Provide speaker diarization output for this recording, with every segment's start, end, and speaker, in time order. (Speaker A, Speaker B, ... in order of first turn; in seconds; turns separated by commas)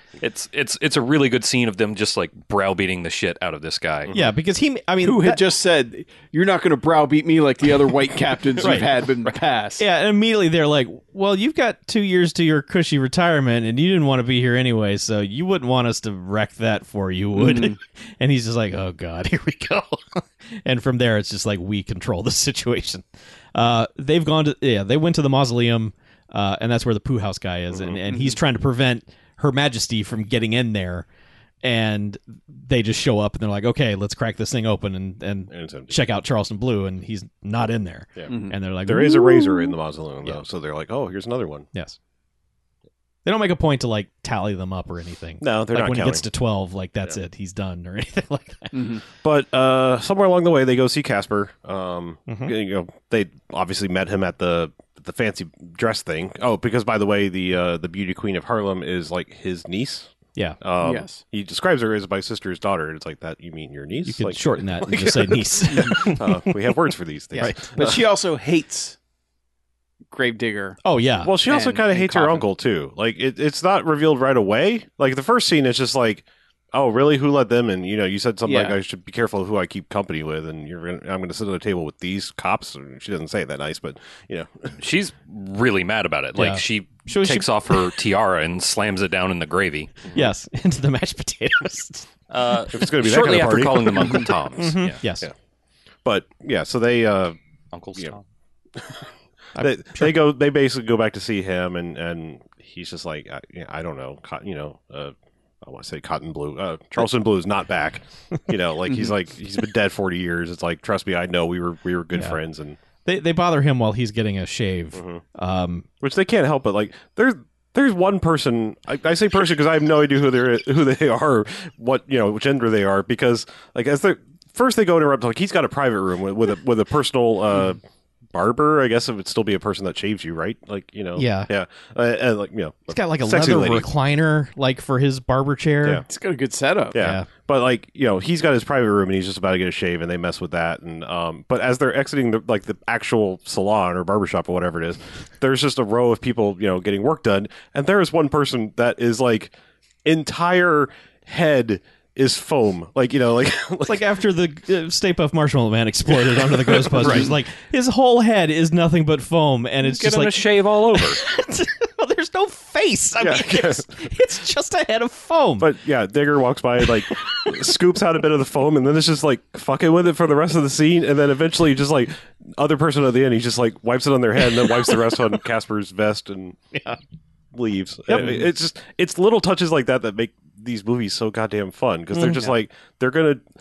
Speaker A: 0.2-4.1, Speaker B: 4.1-5.4, Speaker C: 5.0-9.8, Speaker B: 8.6-8.9, Speaker B: 9.8-31.1, Speaker C: 17.3-17.8, Speaker D: 27.7-28.0, Speaker C: 28.1-28.4, Speaker B: 31.6-39.7, Speaker D: 35.5-36.0, Speaker C: 38.3-38.6, Speaker D: 38.9-41.7, Speaker B: 43.2-49.0, Speaker D: 45.4-46.2, Speaker C: 48.7-49.0, Speaker D: 49.2-68.0, Speaker B: 52.3-52.5, Speaker C: 60.8-61.2, Speaker B: 64.0-66.8, Speaker C: 65.7-66.0, Speaker B: 67.3-68.0, Speaker C: 67.4-69.0, Speaker C: 70.1-70.8, Speaker B: 70.8-71.3, Speaker D: 71.2-84.7, Speaker C: 71.5-72.5, Speaker C: 78.4-78.8, Speaker A: 84.8-89.9, Speaker B: 86.3-88.0, Speaker B: 90.1-92.1, Speaker A: 92.3-95.0, Speaker D: 92.7-94.3, Speaker B: 94.6-95.3, Speaker D: 96.0-97.3, Speaker A: 97.7-98.2, Speaker D: 98.7-112.8, Speaker B: 99.6-100.1, Speaker C: 108.9-109.1, Speaker B: 112.1-112.4, Speaker B: 113.0-115.9, Speaker D: 114.9-115.2, Speaker D: 116.0-127.8, Speaker D: 128.3-133.9, Speaker B: 131.2-131.5, Speaker B: 132.9-136.0, Speaker C: 136.1-137.0, Speaker D: 136.9-154.1, Speaker B: 137.0-137.2, Speaker B: 153.8-165.7, Speaker D: 156.2-157.3, Speaker C: 157.0-157.3, Speaker A: 159.8-161.2, Speaker D: 163.2-163.9, Speaker D: 165.6-176.6, Speaker B: 167.0-167.6, Speaker B: 174.5-174.9, Speaker D: 177.5-183.4, Speaker B: 178.1-178.4, Speaker B: 182.1-182.5